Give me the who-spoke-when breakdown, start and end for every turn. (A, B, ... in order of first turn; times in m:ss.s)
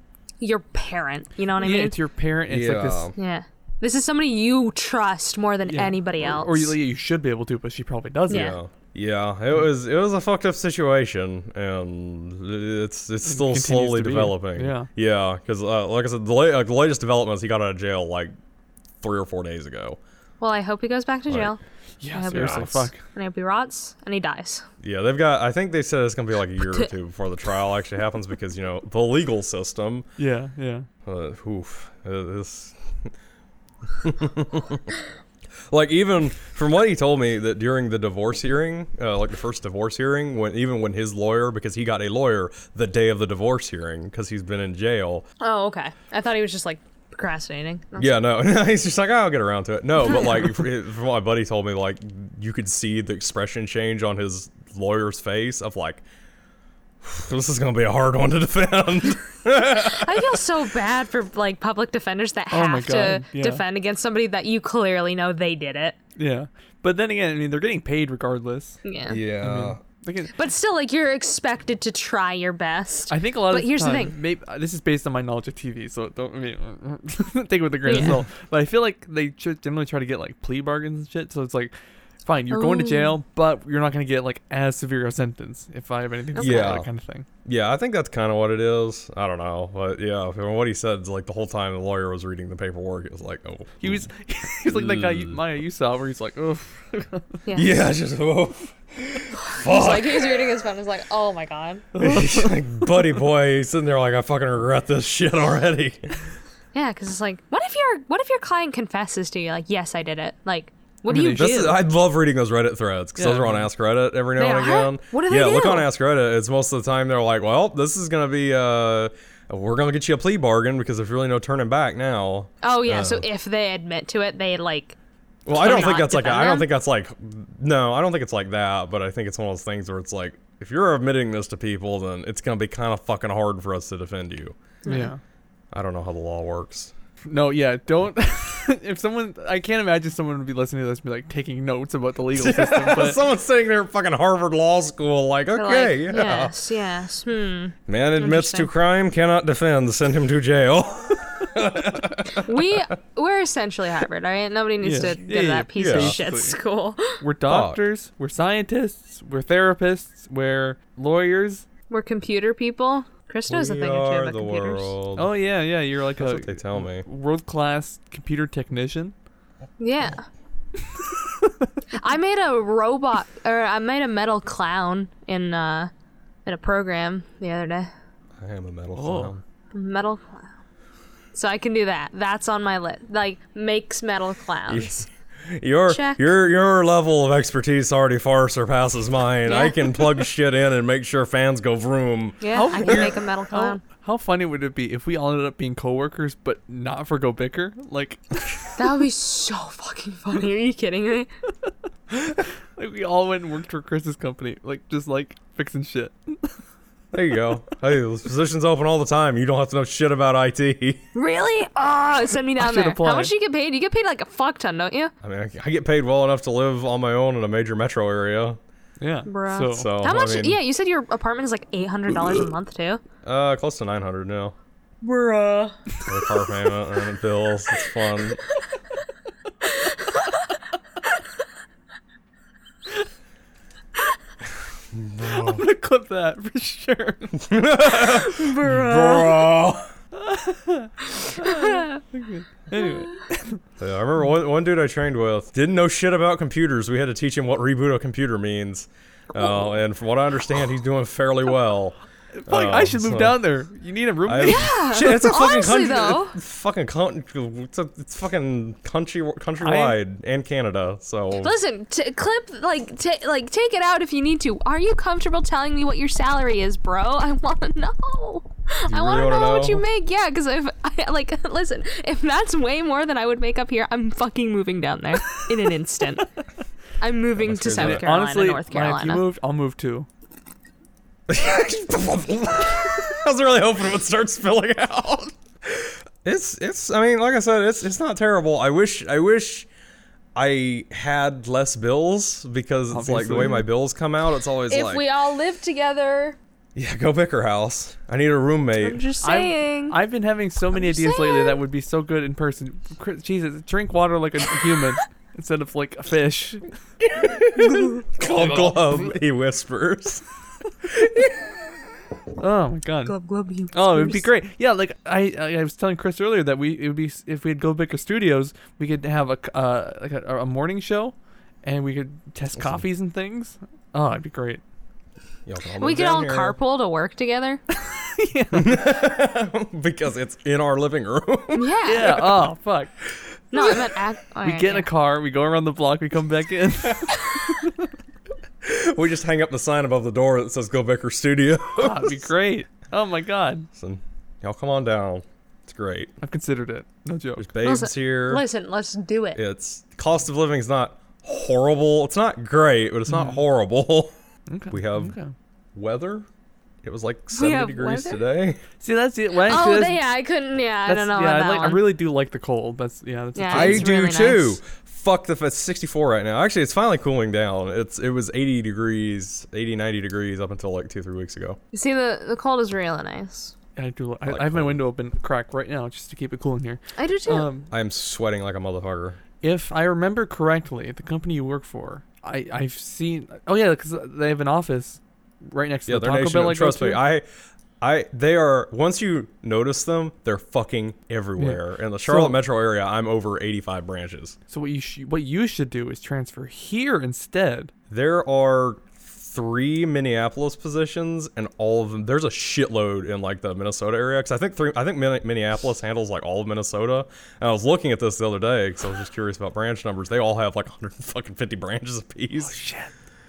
0:00.4-0:02.0 A
0:01.6-0:03.1 B
0:02.5-0:03.1 C
0:03.2-0:06.7 A
0:05.6-0:08.6 B
0:08.3-0:08.6 A
0:08.3-0:18.3 C
0:13.2-0:14.9 B
0:19.0-0:20.0 C
0:20.4-0:21.6 A
0:22.0-0:23.0 B
0:22.1-0:24.6 A
0:22.3-0:22.9 C
0:24.8-0:30.1 C
0:30.2-0:30.9 B
0:31.0-0:33.1 C
0:34.0-0:34.9 C
0:35.7-0:45.2 C
0:45.4-0:48.2 A
0:48.0-0:56.0 C
0:50.0-0:50.6 A
0:57.0-1:00.4 C
0:59.7-1:06.0 A
1:02.5-1:03.6 B
1:06.2-1:08.8 B
1:08.8-1:09.2 A
1:09.1-1:09.8 C
1:09.4-1:10.3 B
1:10.3-1:14.1 A
1:13.1-1:27.2 B
1:17.8-1:18.2 A
1:17.9-1:18.2 C
1:22.5-1:23.2 A
1:26.3-1:26.8 A
1:26.4-1:26.9 C
1:27.4-1:34.1 C
1:33.8-1:37.3 B
1:34.7-1:35.4 C
1:37.4-1:37.7 A
1:37.5-1:40.5 C
1:39.4-1:41.9 A
1:41.9-1:42.6 B
1:42.0-1:46.2 C
1:46.7-1:51.8 A
1:51.1-1:51.7 B
1:51.3-2:03.3 C
1:53.2-1:53.7 B
1:54.4-1:55.9 A
2:02.6-2:05.0 A
2:05.5-2:14.6 C
2:05.5-2:06.7 A
2:14.8-2:15.1 A
2:14.8-2:15.2 B
2:15.7-2:16.9 C
2:17.3-2:23.2 B
2:22.3-2:26.5 C
2:25.5-2:28.7 A
2:27.9-2:32.8 C
2:32.3-2:37.2 A
2:34.8-2:36.6 B
2:35.8-2:36.2 C
2:37.2-2:41.6 B
2:37.4-2:37.8 C
2:41.9-2:44.9 A
2:43.5-2:45.3 C
2:45.2-2:49.1 B
2:46.2-2:47.0 C
2:49.8-2:50.2 A
2:51.2-2:51.7 B
2:51.9-2:55.9 A
2:56.4-2:57.9 A
2:58.4-2:59.4 C
2:58.9-2:59.3 B
2:59.7-3:00.5 A
3:01.3-3:05.0 A
3:04.7-3:13.1 C
3:05.9-3:06.2 A
3:09.4-3:10.1 A
3:12.4-3:13.8 A
3:12.5-3:18.7 B
3:18.8-3:21.3 A
3:22.7-3:26.5 B
3:27.1-3:31.0 C
3:31.1-3:35.1 A
3:32.6-3:33.3 B
3:35.2-3:38.6 C
3:39.0-3:39.9 B
3:39.3-3:43.0 A
3:39.7-3:40.6 C
3:43.2-3:44.5 C
3:45.0-3:46.2 A
3:46.0-3:48.4 C
3:49.7-3:50.2 A
3:54.9-3:55.6 C
3:55.2-3:57.4 B
3:57.4-3:59.9 C
3:57.9-3:59.4 A
4:00.1-4:03.6 B
4:01.3-4:02.0 A
4:03.8-4:12.0 C
4:12.3-4:14.7 B
4:12.5-4:13.4 C
4:14.2-4:21.5 C
4:14.4-4:16.4 A
4:19.6-4:20.0 B
4:21.4-4:36.3 A
4:28.9-4:29.8 C
4:37.0-4:39.2 A
4:37.4-4:38.0 C
4:37.8-4:40.1 B
4:41.3-4:49.7 C
4:50.4-4:55.0 C
4:52.9-4:53.6 B
4:54.7-4:56.4 A
4:56.7-4:59.0 C
4:58.8-5:00.0 A
4:59.2-5:06.7 B
5:00.7-5:01.6 A
5:07.1-5:10.2 C
5:08.2-5:09.1 B
5:10.8-5:11.5 C
5:12.4-5:13.1 B
5:13.0-5:14.3 A
5:13.7-5:24.6 B
5:22.5-5:22.8 C
5:25.4-5:26.6 C
5:25.8-5:27.6 A
5:27.8-5:28.8 B
5:28.5-5:31.7 C
5:31.5-5:32.3 A
5:31.8-5:32.9 B
5:33.5-5:34.9 A
5:33.6-5:33.8 C
5:34.4-5:37.9 B
5:38.6-5:42.3 C
5:41.8-5:43.7 B
5:43.8-5:46.1 C
5:46.2-5:47.5 B
5:47.4-5:48.4 C
5:47.6-5:49.4 A
5:49.4-5:54.1 C
5:53.1-5:53.4 B
5:54.5-5:55.3 B
5:54.7-5:55.1 C
5:55.7-5:56.3 C
5:56.8-5:58.6 C
5:57.3-5:58.2 A
5:58.8-6:00.0 B
5:59.4-6:01.9 A
6:00.9-6:03.9 B
6:03.3-6:04.6 A
6:03.5-6:11.6 C
6:11.7-6:13.5 A
6:13.8-6:17.7 B
6:14.3-6:14.8 C
6:17.0-6:17.5 A
6:17.7-6:19.2 C
6:19.4-6:27.0 B
6:25.9-6:27.2 C
6:27.8-6:34.4 C
6:31.4-6:32.4 B
6:34.5-6:37.7 B
6:37.9-6:52.6 C
6:52.4-6:52.9 B